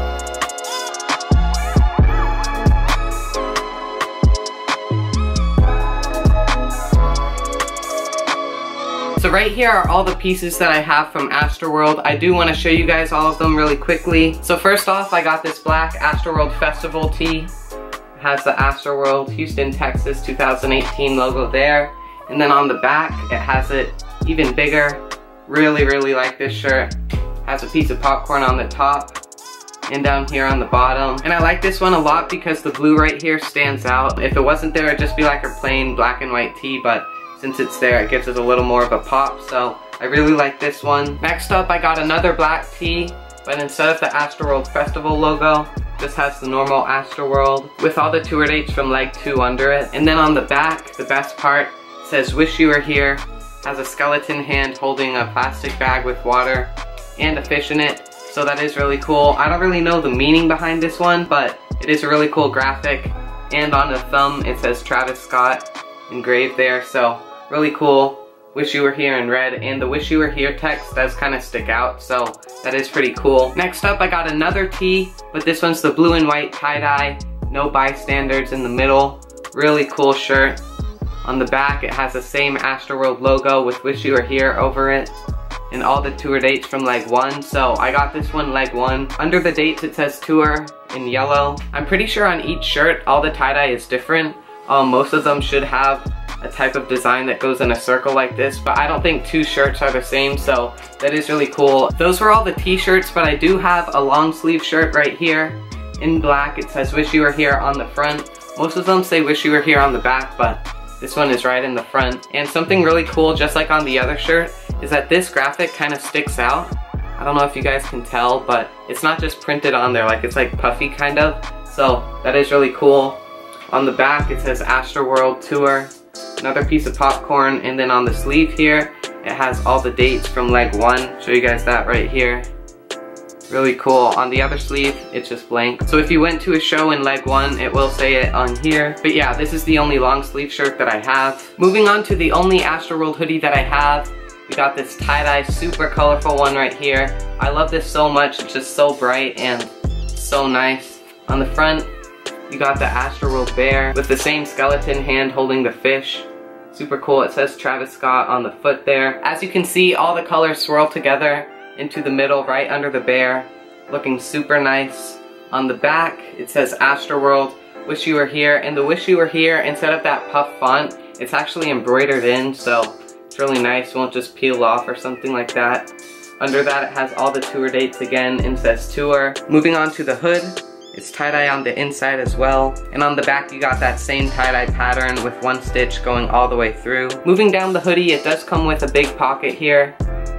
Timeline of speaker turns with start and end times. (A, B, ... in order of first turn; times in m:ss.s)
0:09.2-0:17.5 A
0:18.2-0:29.2 A
0:29.9-1:20.6 A
1:21.2-1:25.1 A
1:25.7-2:03.2 A
2:03.7-2:12.5 A
2:13.5-2:31.9 A
2:32.5-3:10.0 A